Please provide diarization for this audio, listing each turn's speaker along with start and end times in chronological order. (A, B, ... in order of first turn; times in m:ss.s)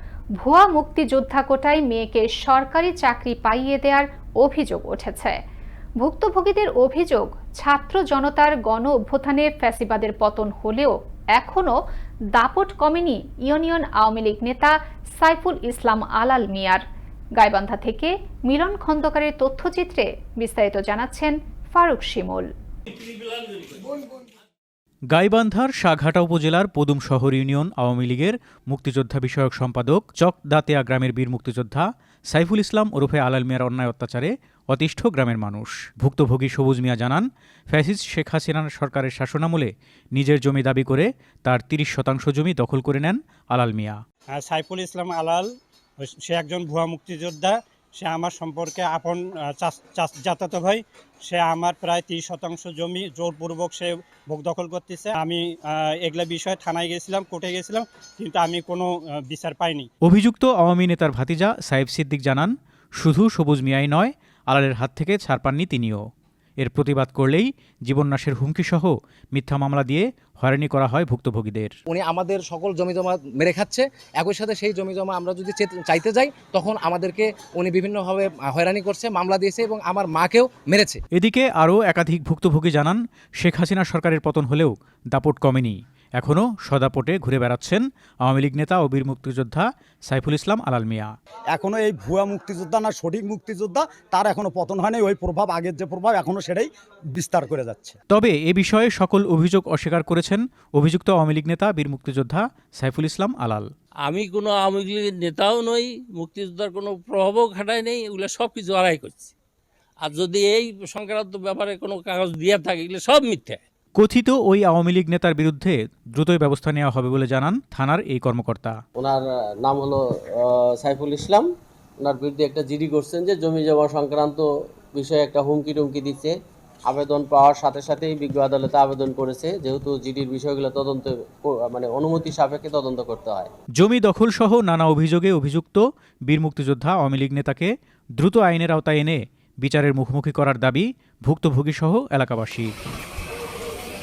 0:00.4-0:05.4 A
0:06.0-0:11.7 A
0:12.3-0:16.8 A
0:17.4-0:22.5 A
0:25.1-0:44.0 B
0:44.3-0:59.9 C
1:00.0-1:06.0 B
1:06.6-1:11.7 B
1:11.9-1:21.0 D
1:21.1-1:31.1 B
1:31.5-1:38.0 E
1:38.1-1:43.7 B
1:44.0-1:49.3 F
1:50.0-1:53.6 F
1:54.0-1:58.8 B
1:59.0-2:01.5 G
2:02.0-2:06.3 G
2:06.8-2:13.5 G
2:13.8-2:22.7 B